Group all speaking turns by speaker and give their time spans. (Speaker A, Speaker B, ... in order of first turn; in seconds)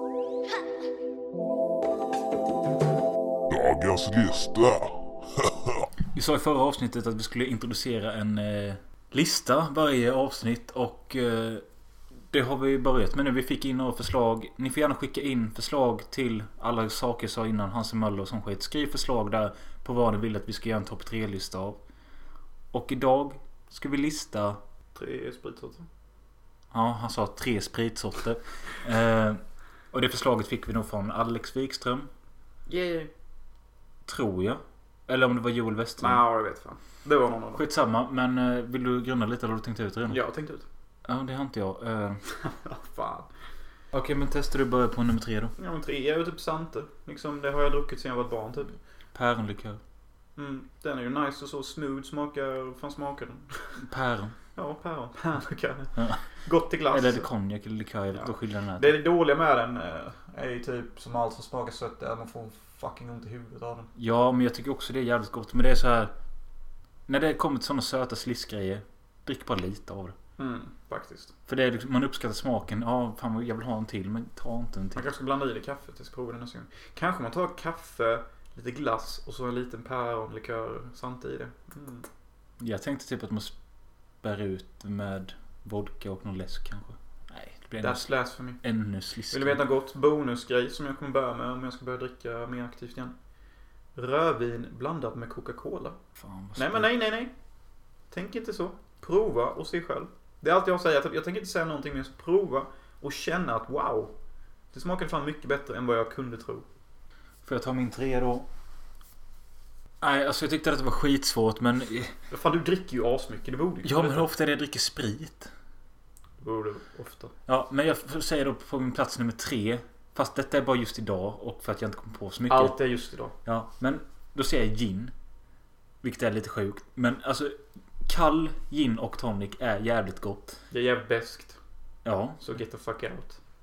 Speaker A: 3.5-5.5
Speaker B: 6.1-11.6, 12.3-21.8, 22.7-24.6, 26.7-32.1, 34.1-36.2, 37.6-40.2, 41.1-42.2, 43.9-45.5, 49.1-49.8, 53.8-54.4, 56.0-56.2, 56.9-59.0, 64.0-66.1, 67.1-70.2, 71.5-75.1, 82.6-83.5, 84.2-89.6, 96.2-96.9, 107.4-108.5, 110.0-112.1, 113.8-115.5, 117.5-122.8, 123.5-125.1, 126.0-130.6, 132.1-132.6
Speaker C: 24.9-25.9, 32.7-33.1, 36.0-37.6, 40.1-40.7, 42.4-43.3, 45.6-48.8, 50.4-53.6, 54.6-57.3, 58.1-63.9, 70.4-71.3, 75.0-82.1, 87.8-88.6, 89.3-93.2, 94.0-96.0, 96.6-97.3, 98.1-104.1, 104.7-106.7, 112.3-114.3, 116.4-117.3, 122.5-123.3, 130.7-131.6, 132.4-133.4